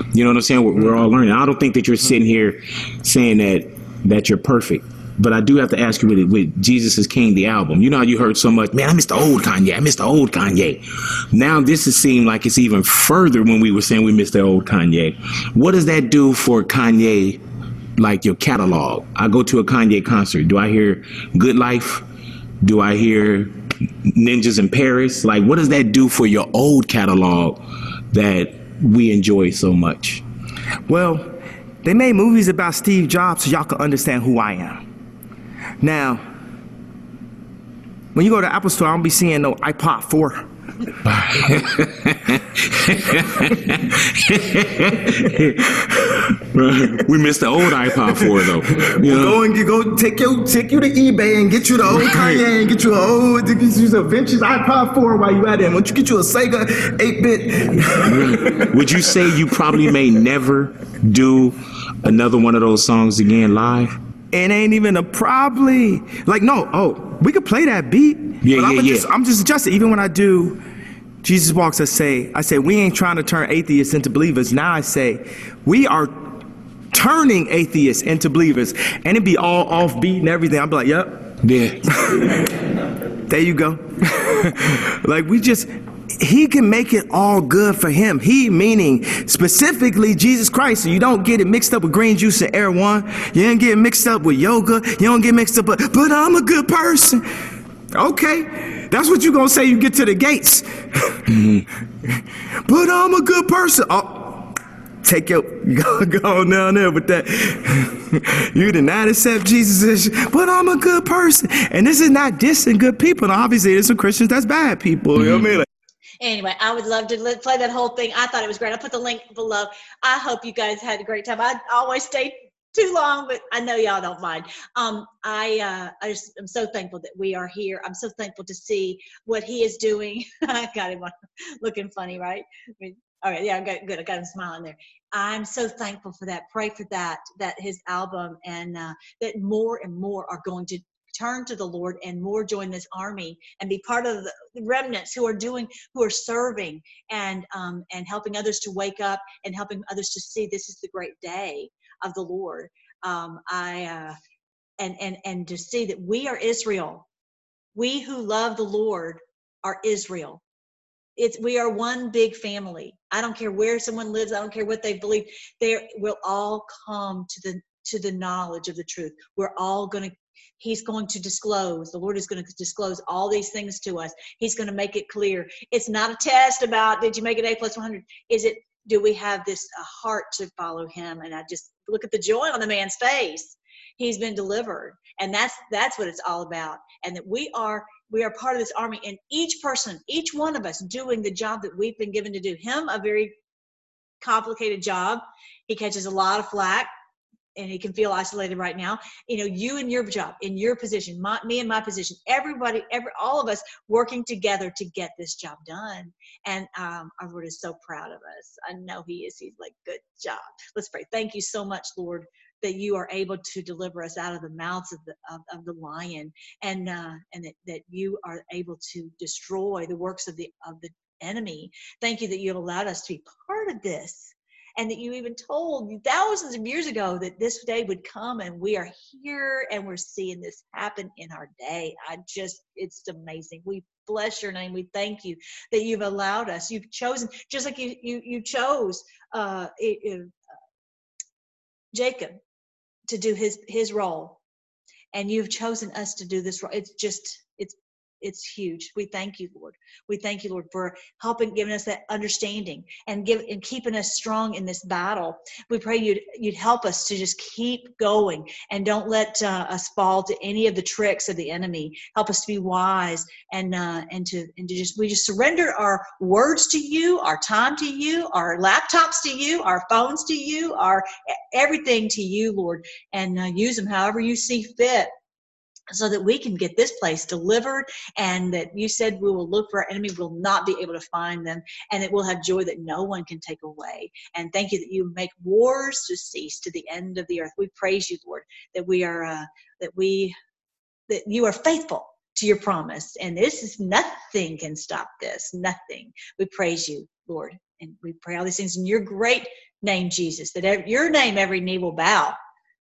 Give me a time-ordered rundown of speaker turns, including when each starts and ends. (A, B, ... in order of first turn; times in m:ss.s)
0:00.1-0:17.4 A
0:18.0-0:22.0 A
0:22.6-0:23.5 A
0:24.0-0:27.6 A
0:28.1-0:30.2 A
0:30.9-0:31.3 B
0:31.8-0:34.8 B
0:35.8-0:36.2 B
0:38.1-0:40.5 B
0:41.1-0:49.4 A
0:48.0-0:58.6 B
0:51.9-0:52.4 A
0:58.1-1:04.0 A
1:04.3-1:10.6 B
1:08.4-1:09.1 A
1:11.2-1:16.4 B
1:16.9-1:21.3 B
1:21.4-1:22.3 A
1:23.3-1:37.2 B
1:37.9-1:41.2 B
1:41.3-1:41.6 A
1:42.0-1:55.7 B
1:55.2-1:55.6 A
1:56.2-2:34.2 C
2:34.8-2:37.1 C
2:37.8-2:40.4 C
2:41.2-3:13.4 C
3:14.2-3:16.9 C
3:17.6-4:00.3 C
4:01.9-4:02.4 C
4:03.1-4:04.4 C
4:05.1-4:35.1 C
4:35.9-4:50.4 C
4:51.1-5:02.4 C